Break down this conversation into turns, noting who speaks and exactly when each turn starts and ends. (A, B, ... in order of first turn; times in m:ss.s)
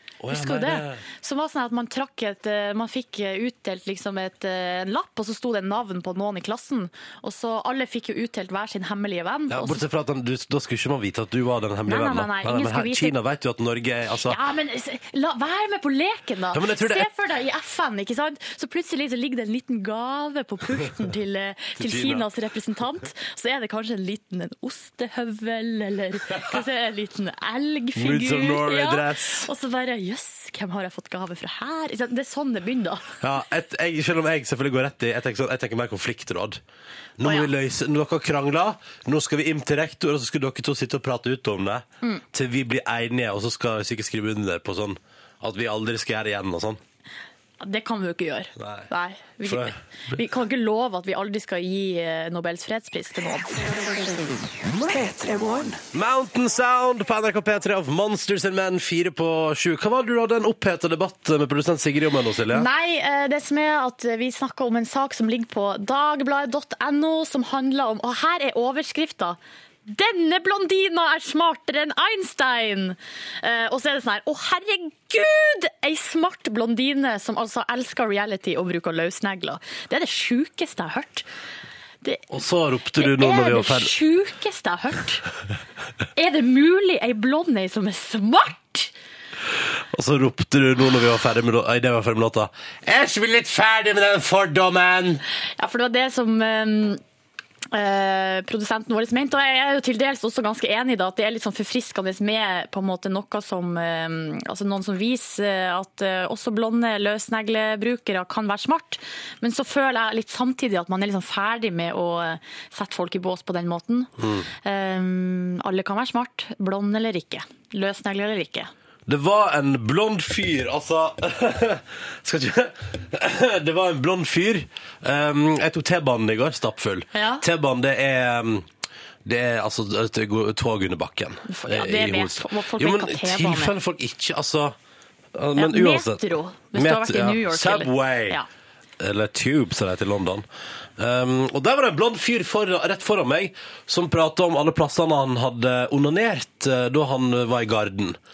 0:00.2-0:01.0 A
0:00.3-0:09.8 B
0:09.5-0:14.4 A
0:11.8-0:13.2 B
0:14.2-0:33.1 B
0:16.5-0:17.1 A
0:21.8-0:22.2 A
0:27.9-0:29.5 A
0:33.2-0:36.6 A
0:37.2-0:46.8 A
0:37.2-0:37.5 B
0:47.6-0:53.7 B
0:48.6-0:48.9 A
0:49.4-0:49.8 A
0:54.9-1:02.7 A
1:02.5-1:21.3 B
1:22.3-1:23.9 A
1:23.0-1:25.2 B
1:26.2-1:28.9 B
1:29.9-1:35.2 A
1:35.6-1:37.0 B
1:37.7-1:54.1 B
1:54.2-1:54.5 A
1:54.6-1:58.7 B
1:59.1-2:08.7 A
2:07.1-2:07.4 B
2:09.2-2:14.8 A
2:11.5-2:13.7 B
2:15.3-2:18.4 A
2:15.6-2:18.4 B
2:19.0-2:20.4 A
2:21.0-2:28.2 A